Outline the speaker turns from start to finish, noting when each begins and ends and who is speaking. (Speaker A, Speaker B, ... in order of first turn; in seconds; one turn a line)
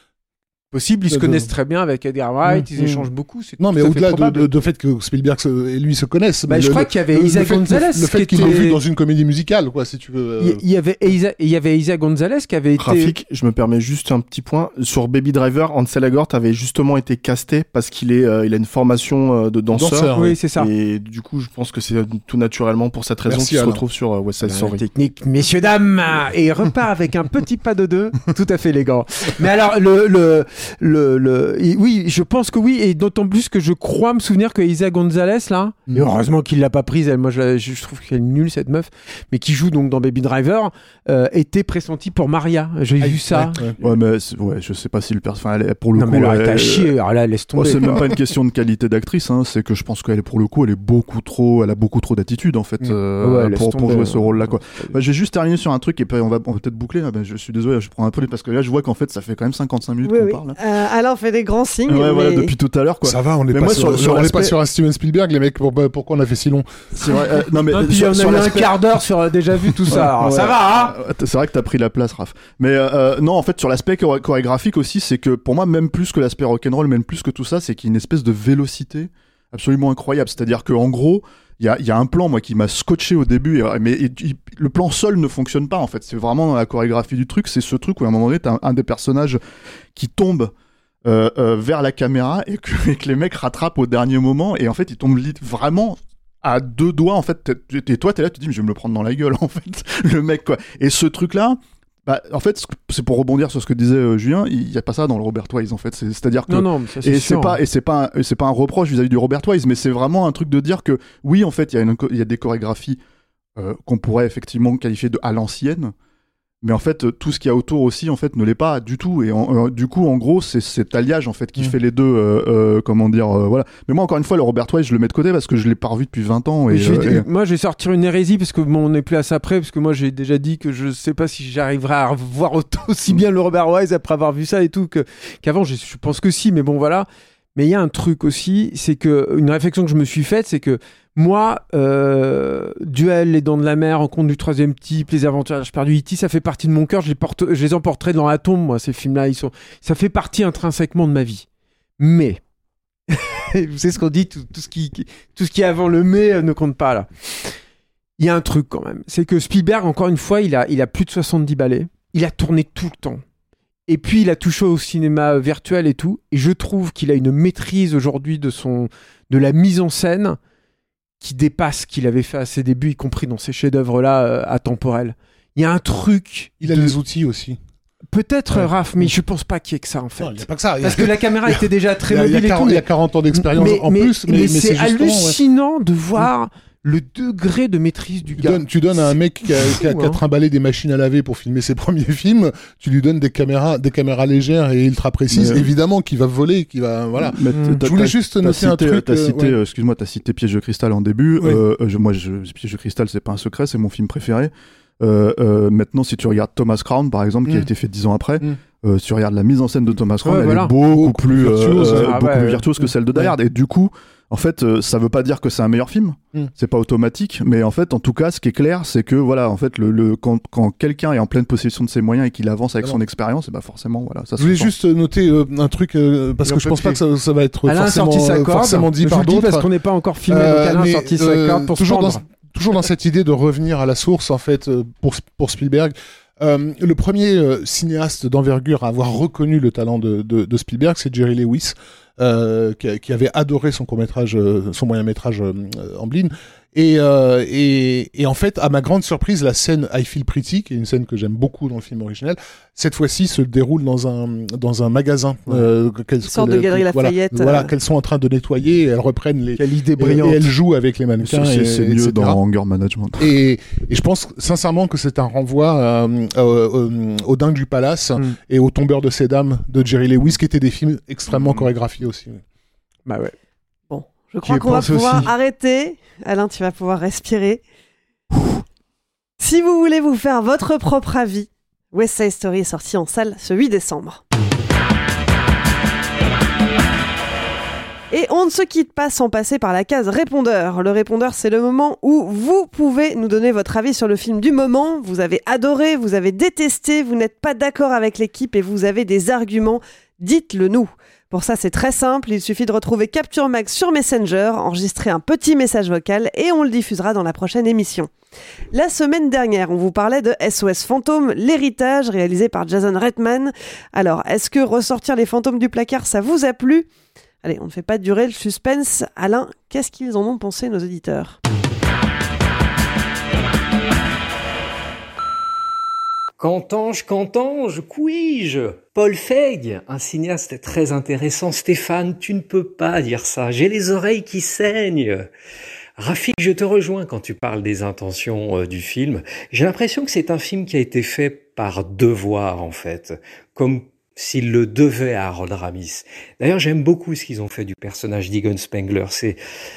Speaker A: 0.7-4.5
Speaker B: 1.1-1.5
Speaker B: 2.5-3.1
Speaker B: 3.6-10.6
Speaker A: 6.5-8.8
Speaker A: 10.4-13.1
Speaker C: 12.8-24.8
Speaker B: 19.7-20.3
Speaker A: 20.1-20.7
Speaker B: 23.2-23.8
Speaker B: 24.4-24.7
Speaker A: 24.8-43.6
Speaker B: 43.0-43.7
Speaker D: 43.8-46.9
Speaker A: 46.0-48.1
Speaker D: 47.5-60.6
Speaker B: 47.8-48.1
Speaker A: 53.2-54.9
Speaker E: 60.0-62.5
Speaker D: 61.9-64.5
Speaker B: 63.0-67.2
Speaker D: 66.9-68.7
Speaker A: 67.7-71.0
Speaker D: 69.9-89.4
Speaker D: 89.9-90.5
Speaker D: 91.0-113.0
Speaker A: 106.5-107.6
Speaker D: 113.6-115.9
Speaker D: 116.6-127.3
Speaker A: 126.7-151.4
Speaker A: 152.0-152.4
Speaker A: 153.1-157.6
Speaker A: 158.2-163.2
Speaker A: 163.9-170.4
Speaker A: 171.2-177.0
Speaker B: 176.6-177.6
Speaker A: 178.1-190.2
Speaker B: 178.5-179.2
Speaker B: 180.2-185.4
Speaker B: 188.4-199.6
Speaker D: 195.3-195.7
Speaker D: 197.2-224.7
Speaker A: 197.5-197.8
Speaker A: 210.2-210.7
Speaker B: 210.8-212.4
Speaker A: 211.8-212.8
Speaker B: 224.4-229.7
Speaker A: 226.4-227.0
Speaker A: 227.6-232.2
Speaker B: 230.3-262.4
Speaker E: 256.2-257.7
Speaker A: 259.5-260.5
Speaker D: 261.2-263.3
Speaker B: 263.2-272.4
Speaker A: 273.1-273.3
Speaker E: 273.9-277.6
Speaker A: 274.4-275.3
Speaker E: 279.4-284.2
Speaker E: 288.1-308.1
Speaker E: 308.7-316.9
Speaker E: 317.4-321.4
Speaker F: 326.4-335.3
Speaker F: 336.0-349.4